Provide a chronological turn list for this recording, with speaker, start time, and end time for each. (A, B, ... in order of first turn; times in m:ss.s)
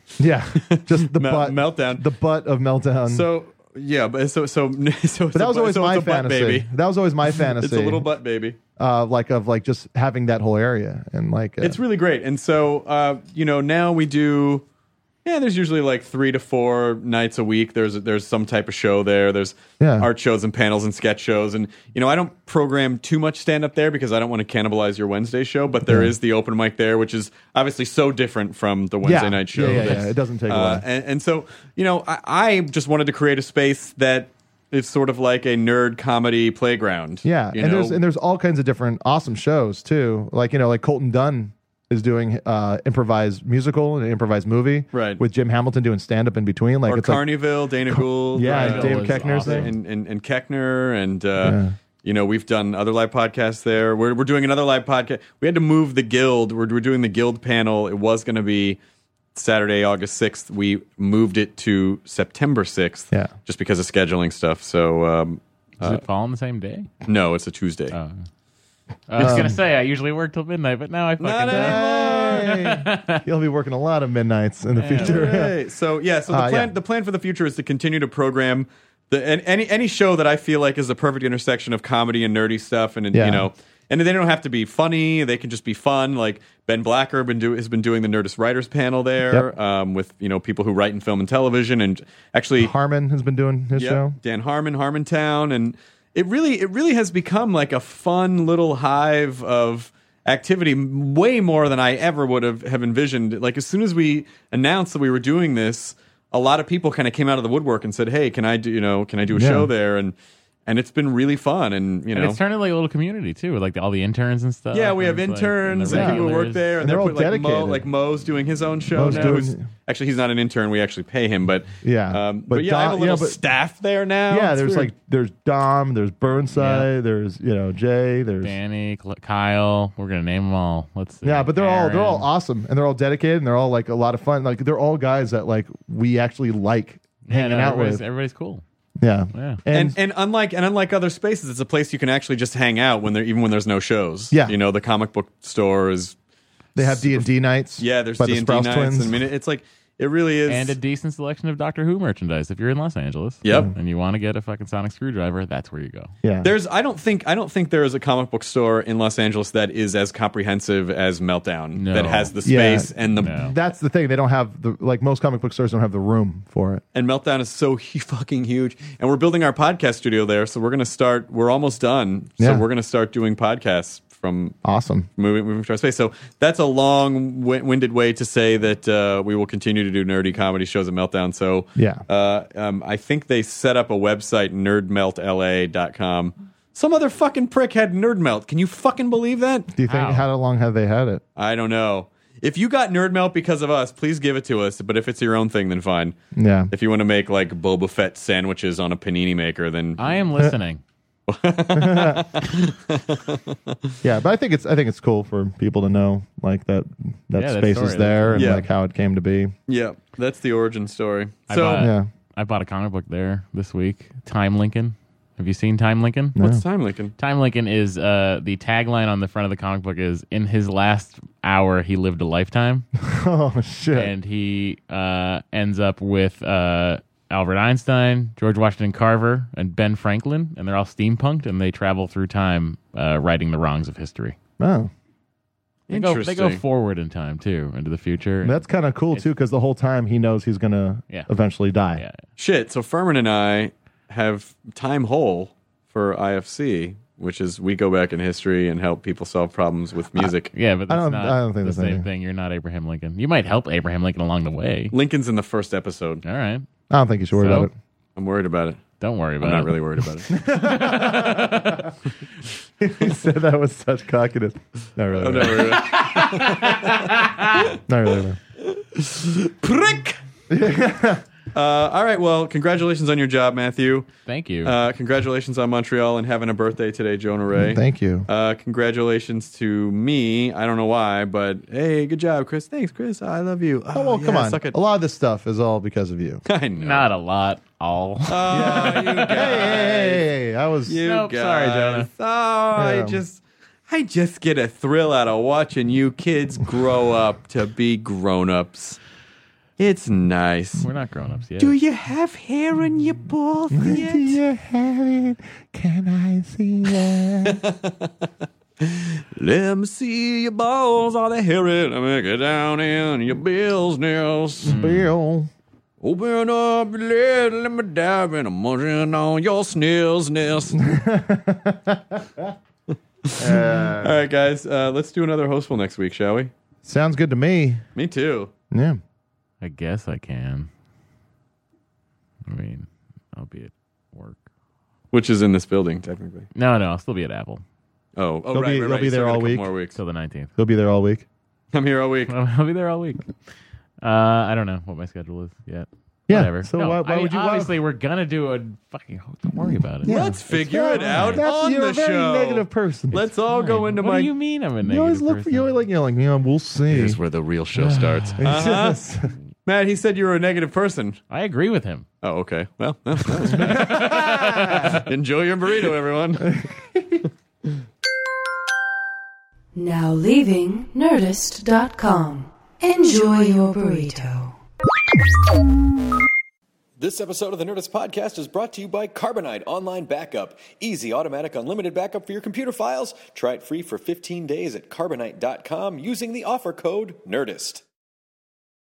0:00.2-0:03.3 A
0:00.6-0:02.0 B
0:03.1-0:06.7 B
0:05.3-0:08.1 A
0:07.4-0:08.6 B
0:08.8-0:11.8 A
0:11.6-0:14.6 B
0:15.2-0:38.0 B
0:19.8-0:20.1 A
0:25.8-0:26.1 A
0:29.0-0:30.8 A
0:29.6-0:30.0 C
0:37.2-0:47.3 A
0:44.9-0:45.2 B
0:46.9-0:58.8 B
0:47.9-0:49.7 A
0:48.4-0:49.7 C
0:51.4-0:51.8 A
0:59.3-1:06.0 B
1:05.8-1:06.9 C
1:07.0-1:07.9 B
1:07.9-1:08.2 C
1:09.1-1:13.2 C
1:09.2-1:09.6 A
1:11.2-1:12.7 B
1:11.5-1:15.6 A
1:14.8-1:15.4 C
1:14.9-1:32.7 B
1:16.3-1:16.7 A
1:23.1-1:23.5 A
1:32.6-1:34.2 A
1:33.7-1:50.1 B
1:49.3-1:49.7 A
1:50.6-1:52.4 B
1:52.1-1:56.7 C
1:54.7-2:04.9 B
1:55.9-1:57.8 A
1:58.9-1:59.6 A
2:01.8-2:03.4 A
2:04.3-2:08.5 A
2:06.6-2:06.9 C
2:08.4-2:12.3 C
2:11.2-2:18.0 A
2:17.2-2:18.6 C
2:19.0-2:20.0 A
2:19.3-2:19.6 C
2:19.7-2:26.2 B
2:24.3-2:24.6 A
2:26.8-2:29.2 A
2:26.8-2:30.8 B
2:30.5-2:36.1 C
2:33.4-2:33.7 B
2:36.2-2:36.5 A
2:36.4-2:43.5 B
2:41.7-2:42.4 C
2:42.4-2:46.8 A
2:43.2-2:43.5 C
2:46.9-2:54.6 B
2:54.6-2:55.1 A
2:55.2-3:09.7 B
3:01.8-3:02.0 A
3:09.8-3:11.2 A
3:09.8-3:10.3 C
3:11.4-3:16.1 B
3:16.3-3:16.7 A
3:16.7-3:20.3 B
3:20.0-3:20.8 C
3:21.3-3:23.8 B
3:21.7-3:22.2 A
3:24.0-3:29.5 A
3:27.4-3:28.6 C
3:28.3-3:28.6 B
3:29.7-3:31.9 B
3:31.5-3:36.4 C
3:31.7-3:32.1 A
3:36.4-3:36.6 A
3:36.4-3:37.1 B
3:37.2-3:42.9 C
3:43.0-3:44.1 A
3:43.9-3:54.4 C
3:54.6-3:54.9 A
3:55.9-3:56.6 B
3:55.9-3:58.6 C
3:58.4-4:02.0 A
4:02.4-4:10.5 B
4:10.5-4:14.9 C
4:10.9-4:12.1 A
4:14.9-4:16.2 B
4:16.2-4:16.6 C
4:16.9-4:17.7 A
4:17.4-4:17.7 C
4:18.2-4:20.3 B
4:19.0-4:21.9 C
4:20.3-4:21.7 A
4:22.8-4:25.8 A
4:25.2-4:27.7 B
4:25.7-4:27.7 C
4:27.8-4:28.4 A
4:28.6-4:30.2 B
4:30.5-4:31.2 A
4:31.5-4:34.1 B
4:34.3-4:34.7 C
4:34.6-4:44.8 B
4:37.6-4:38.3 A
4:43.9-4:46.4 A
4:46.4-4:47.1 B
4:46.8-4:49.7 C
4:48.3-4:50.3 B
4:48.5-4:51.0 A
4:50.8-4:59.0 B
4:51.0-4:52.1 C
4:52.7-4:53.2 A
4:59.8-5:00.8 B
5:00.8-5:01.8 C
5:01.6-5:04.4 B
5:03.7-5:07.6 A
5:07.4-5:08.1 B
5:08.8-5:14.7 B
5:14.6-5:15.5 A
5:14.7-5:15.1 C
5:16.0-5:20.8 B
5:20.8-5:22.5 A
5:23.2-5:26.5 B
5:23.4-5:24.2 A
5:26.8-5:27.8 A
5:27.9-5:28.5 B
5:28.7-5:29.0 A
5:29.6-5:30.7 C
5:32.5-5:34.4 C
5:35.1-5:36.5 B
5:36.5-5:37.6 C
5:38.2-5:40.0 B
5:38.5-5:39.7 A
5:39.9-5:40.5 C
5:40.6-5:41.2 A
5:41.7-5:42.3 B
5:42.3-5:43.3 C
5:44.0-5:50.4 C
5:46.3-5:47.7 A
5:50.0-5:53.2 A
5:50.0-5:54.3 B
5:50.9-5:51.4 C
5:53.5-5:55.7 C
5:54.8-5:57.2 A
5:56.9-6:01.2 B
5:57.7-5:58.4 C
5:58.4-5:59.3 A
6:01.3-6:02.0 C
6:02.2-6:06.6 B
6:03.5-6:05.1 C
6:06.5-6:07.2 A
6:09.7-6:14.5 D
6:17.0-6:27.8 E